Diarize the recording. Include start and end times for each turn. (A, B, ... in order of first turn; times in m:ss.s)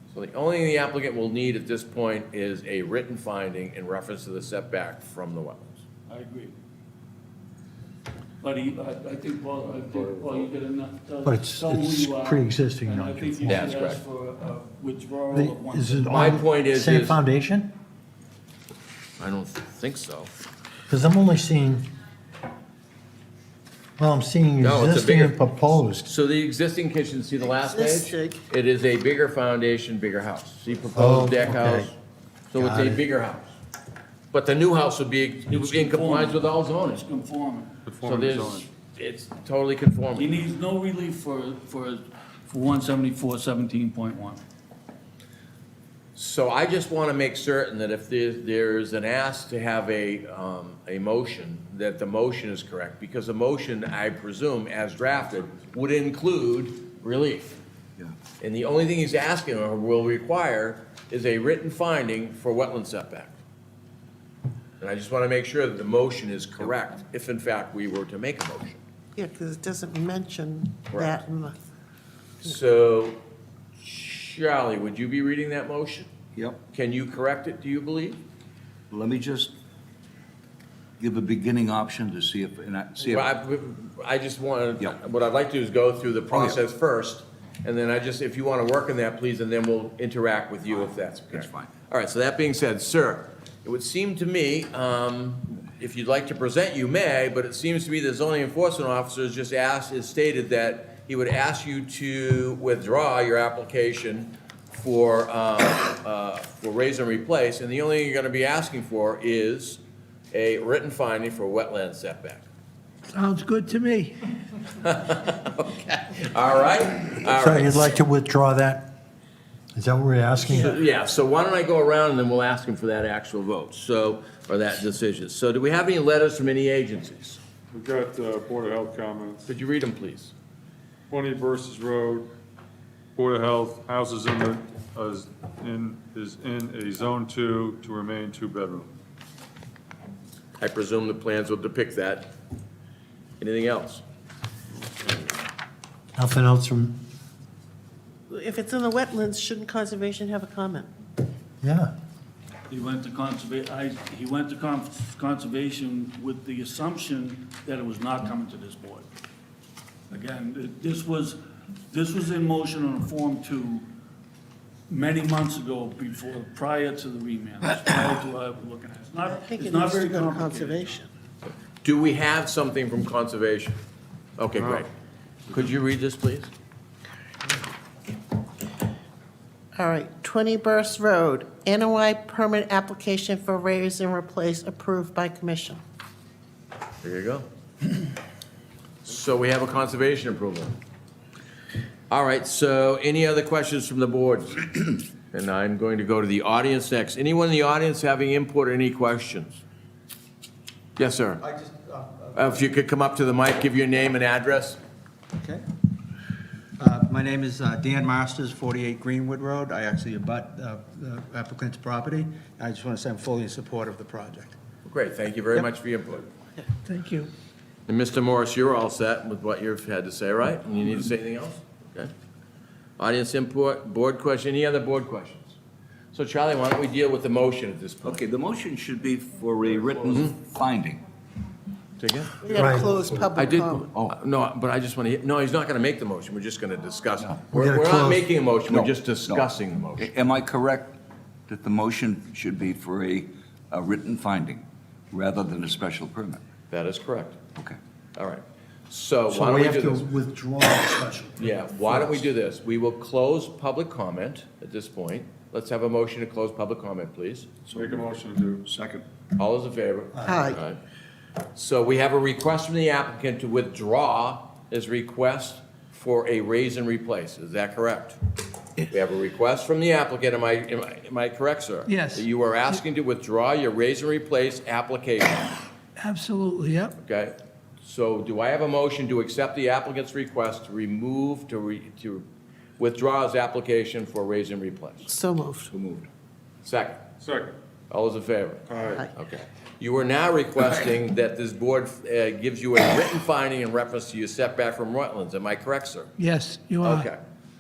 0:00.1-0:05.8 A
0:06.1-0:06.5 B
0:08.4-0:16.3 B
0:11.2-0:13.7 C
0:13.5-0:14.0 A
0:15.3-0:17.8 C
0:16.0-0:17.2 A
0:19.2-0:20.3 A
0:20.9-0:21.9 C
0:24.0-0:26.1 C
0:24.6-0:32.0 A
0:27.4-0:28.4 D
0:31.0-0:31.9 C
0:32.5-0:33.5 A
0:32.5-0:33.0 C
0:34.3-0:37.0 A
0:35.5-0:37.8 B
0:37.9-0:38.7 E
0:38.0-0:40.4 A
0:40.2-0:44.4 B
0:46.2-0:57.6 A
0:58.4-1:03.4 A
1:04.8-1:08.8 A
1:09.2-1:11.6 D
1:10.9-1:11.2 A
1:12.4-1:13.2 A
1:13.8-1:16.1 A
1:16.7-1:18.2 A
1:18.9-1:19.5 F
1:21.0-1:23.2 F
1:23.0-1:49.8 A
1:31.4-1:31.7 F
1:50.3-1:52.5 A
1:53.1-1:54.1 G
1:54.8-1:58.0 A
1:57.3-1:58.9 C
1:59.7-2:00.8 C
2:00.4-2:07.4 A
2:07.7-2:09.4 E
2:09.5-2:10.3 A
2:11.1-2:12.3 E
2:13.2-2:18.9 E
2:20.6-2:22.3 A
2:23.4-2:24.0 A
2:26.2-2:27.0 C
2:28.3-2:30.9 D
2:31.6-2:31.9 C
2:32.7-2:39.1 B
2:40.1-2:41.4 B
2:41.9-2:43.9 B
2:44.9-2:51.0 B
2:49.3-2:51.1 D
2:51.8-2:53.8 A
2:54.4-2:54.9 A
2:54.6-2:54.8 E
2:55.5-2:56.5 A
2:59.8-3:05.8 D
3:07.0-3:07.5 A
3:09.1-3:10.8 A
3:12.1-3:19.6 A
3:21.0-3:21.4 A
3:21.4-3:22.3 H
3:22.4-3:24.8 A
3:25.4-3:25.6 H
3:26.8-3:34.6 H
3:34.9-3:36.3 A
3:37.0-3:37.3 G
3:37.9-3:42.1 A
3:43.0-3:45.6 A
3:46.1-3:48.2 A
3:48.0-3:51.0 F
3:50.0-3:50.4 A
3:52.0-3:52.7 A
3:52.4-3:53.9 D
3:52.6-3:52.9 C
3:53.3-4:00.1 A
3:57.5-3:58.3 C
3:58.7-3:59.4 F
4:00.0-4:06.4 F
4:06.7-4:07.4 A
4:08.2-4:10.1 A
4:09.3-4:12.2 C
4:11.4-4:17.5 A
4:17.7-4:18.6 E
4:18.7-4:19.0 F
4:19.4-4:20.8 A
4:20.2-4:20.4 C
4:20.2-4:20.6 D
4:21.6-4:28.2 A
4:28.9-4:35.5 A
4:31.9-4:32.2 G
4:36.0-4:36.9 G
4:37.0-4:42.3 A
4:42.8-4:45.1 A
4:45.1-4:45.7 D
4:45.8-4:46.1 F
4:46.6-4:47.0 A
4:47.2-4:47.6 E
4:47.9-4:56.1 A
4:48.7-4:49.0 E
4:48.8-4:49.1 D
4:56.2-4:57.0 G
4:56.8-4:57.2 A